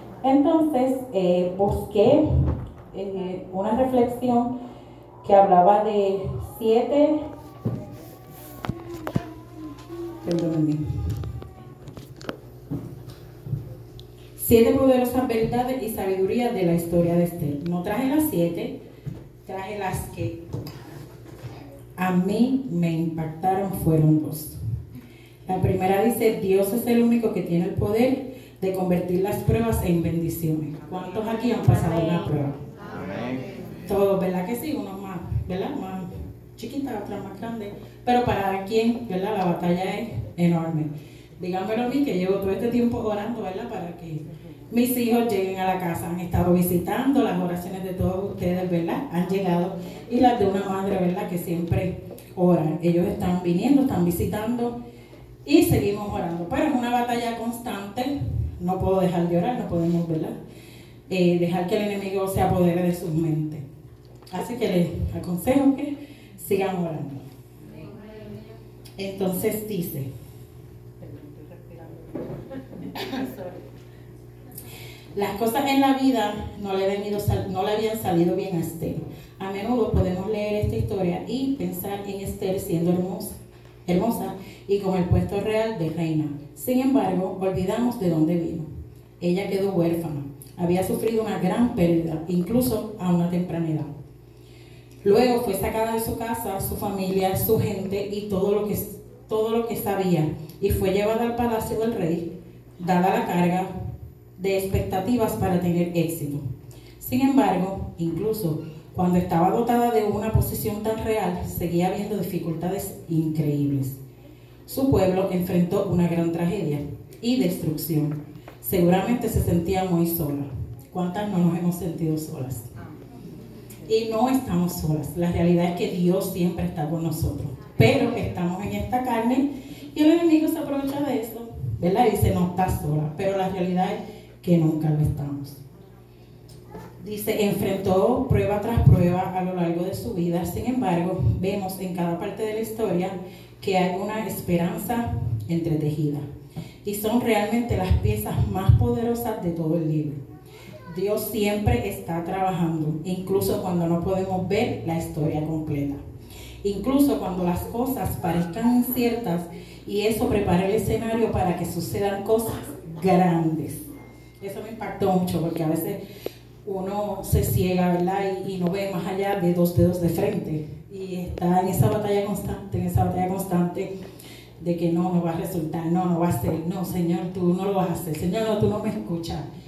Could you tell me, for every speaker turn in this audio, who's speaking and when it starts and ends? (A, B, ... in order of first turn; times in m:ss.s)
0:00.2-0:02.2 A
0:02.9-0:04.5 A
0:05.2-0:07.2 A
0:10.2-0:10.8 A
0:14.4-0:18.8 A
0:19.4-0:20.4 A
0:22.0-0:24.5 A
0:25.4-0:32.6 A
0:33.9-0:54.7 A
0:55.4-1:00.3 A
1:01.1-1:03.6 A
1:04.3-1:07.2 A
1:09.0-1:10.1 A
1:11.0-1:11.9 A
1:13.0-1:13.5 A
1:15.1-1:23.3 A
1:23.9-1:28.6 A
1:29.2-1:33.9 A
1:35.0-1:43.7 A
1:44.4-1:46.4 A
1:47.0-1:54.0 A
1:54.7-2:02.7 A
2:03.9-2:15.6 A
2:17.0-2:26.2 A
2:26.8-2:30.2 A
2:30.9-2:36.0 A
2:36.6-2:43.8 A
2:44.4-2:46.0 A
2:46.6-2:53.9 A
2:54.6-2:59.4 A